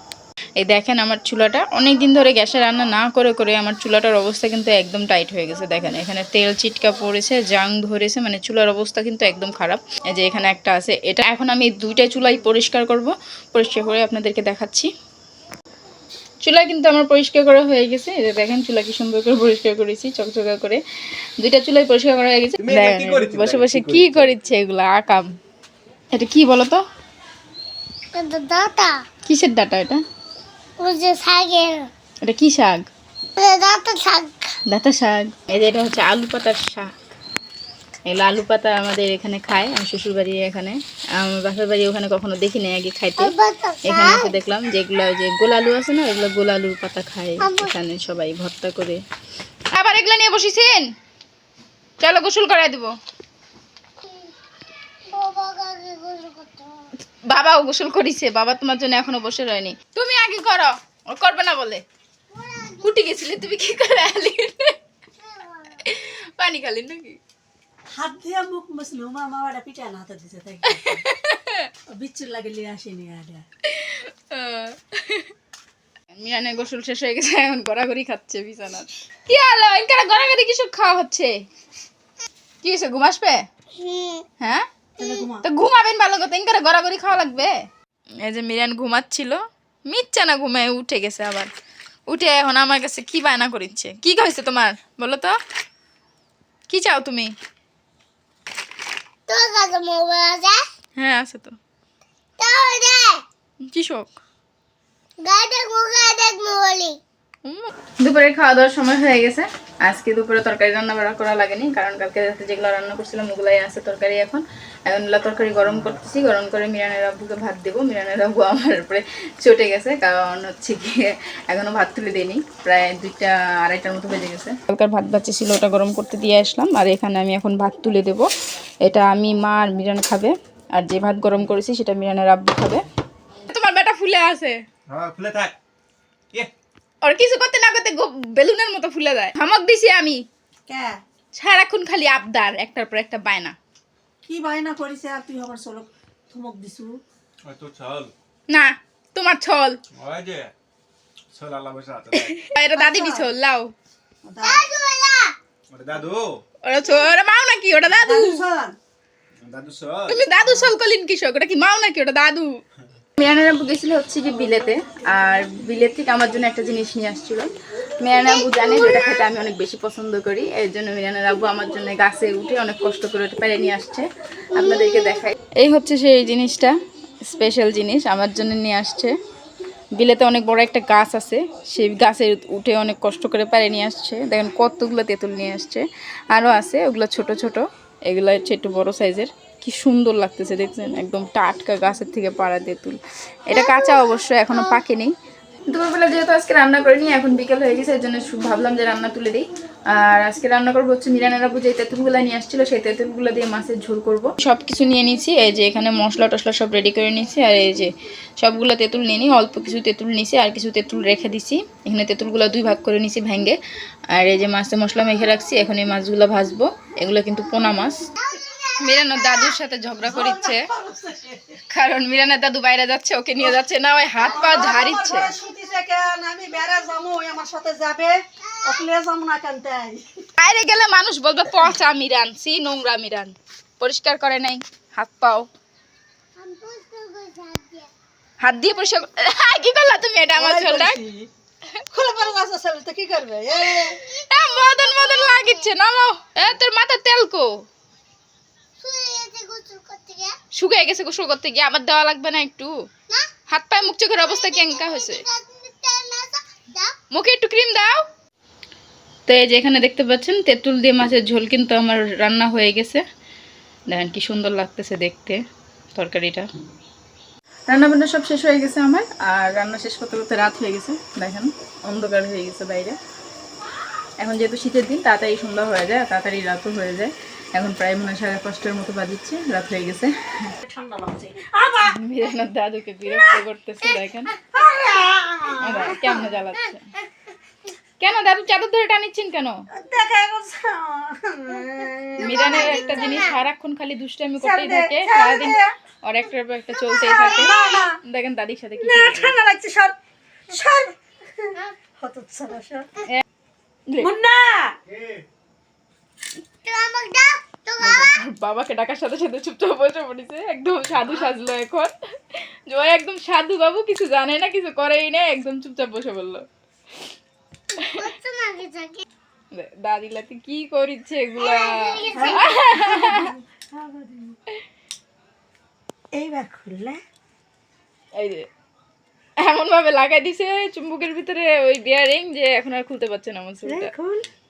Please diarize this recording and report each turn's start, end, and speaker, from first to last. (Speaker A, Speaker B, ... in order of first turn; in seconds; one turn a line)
Speaker A: 0.6-14.9
Speaker A: 16.4-20.8
Speaker A: 21.4-25.3
Speaker B: 22.6-24.3
Speaker A: 26.1-26.8
Speaker C: 28.1-29.0
Speaker A: 29.2-30.0
Speaker C: 30.8-31.9
Speaker A: 32.2-32.9
Speaker C: 33.4-34.5
Speaker A: 34.7-36.9
Speaker A: 38.0-43.3
Speaker C: 43.2-44.2
Speaker A: 43.9-49.0
Speaker C: 47.4-47.7
Speaker A: 49.7-50.9
Speaker A: 52.0-52.9
Speaker C: 55.1-56.8
Speaker A: 57.3-61.8
Speaker C: 62.3-63.1
Speaker A: 62.8-64.8
Speaker C: 65.2-65.8
Speaker A: 65.8-67.2
Speaker D: 67.9-71.0
Speaker A: 70.7-71.7
Speaker D: 71.9-73.4
Speaker A: 73.6-75.3
Speaker A: 76.1-81.4
Speaker A: 82.6-83.5
Speaker C: 83.8-84.2
Speaker D: 85.0-85.4
Speaker A: 85.4-87.6
Speaker A: 88.2-91.5
Speaker A: 92.1-95.4
Speaker A: 96.7-97.3
Speaker C: 99.3-100.6
Speaker A: 101.0-101.6
Speaker C: 102.4-103.2
Speaker A: 103.6-104.2
Speaker C: 105.2-107.0
Speaker A: 107.4-128.3
Speaker A: 128.8-132.8
Speaker A: 133.5-134.6
Speaker B: 134.9-135.6
Speaker A: 137.0-140.2
Speaker D: 140.7-141.0
Speaker A: 141.3-143.6
Speaker D: 144.2-146.9
Speaker B: 147.4-148.1
Speaker A: 148.5-149.8
Speaker B: 149.9-150.5
Speaker B: 151.3-152.3
Speaker A: 152.1-153.7
Speaker D: 152.8-153.3
Speaker D: 154.2-154.6
Speaker C: 154.4-155.3
Speaker B: 155.7-156.4
Speaker A: 156.6-158.4
Speaker D: 157.8-158.8
Speaker B: 159.4-160.2
Speaker A: 160.1-162.6
Speaker A: 163.2-176.7
Speaker C: 168.3-169.2
Speaker A: 177.2-179.1
Speaker A: 179.9-195.1
Speaker C: 193.5-194.7
Speaker A: 195.7-213.6
Speaker A: 214.1-218.1
Speaker C: 218.2-219.6
Speaker A: 218.8-220.7
Speaker D: 220.0-221.6
Speaker A: 221.7-225.3
Speaker D: 224.2-230.0
Speaker C: 224.5-224.8
Speaker C: 228.4-228.8
Speaker A: 230.4-235.5
Speaker C: 236.4-237.9
Speaker A: 238.4-241.0
Speaker D: 240.3-241.3
Speaker D: 241.9-244.0
Speaker A: 243.6-247.6
Speaker C: 243.9-245.6
Speaker C: 248.8-250.4
Speaker A: 250.5-252.7
Speaker A: 253.5-255.2
Speaker C: 253.9-256.9
Speaker A: 257.1-258.1
Speaker A: 259.3-263.0
Speaker A: 263.9-265.4
Speaker A: 265.9-266.5
Speaker A: 267.7-273.0
Speaker A: 274.2-280.1
Speaker D: 280.6-281.9
Speaker A: 281.9-284.3
Speaker D: 283.1-283.4
Speaker D: 284.5-286.2
Speaker A: 285.6-286.9
Speaker A: 288.0-289.6
Speaker D: 289.7-293.3
Speaker A: 292.2-299.4
Speaker C: 292.2-293.3
Speaker D: 294.4-295.7
Speaker C: 297.0-297.8
Speaker D: 297.1-298.0
Speaker D: 298.8-299.9
Speaker D: 300.5-302.9
Speaker D: 304.0-304.8
Speaker B: 304.9-305.2
Speaker C: 306.6-308.1
Speaker A: 307.8-316.4
Speaker C: 317.8-319.0
Speaker A: 319.5-323.3
Speaker C: 321.4-322.7
Speaker D: 322.1-324.4
Speaker D: 326.1-327.0
Speaker A: 328.2-328.5
Speaker A: 329.4-333.9
Speaker D: 333.6-334.3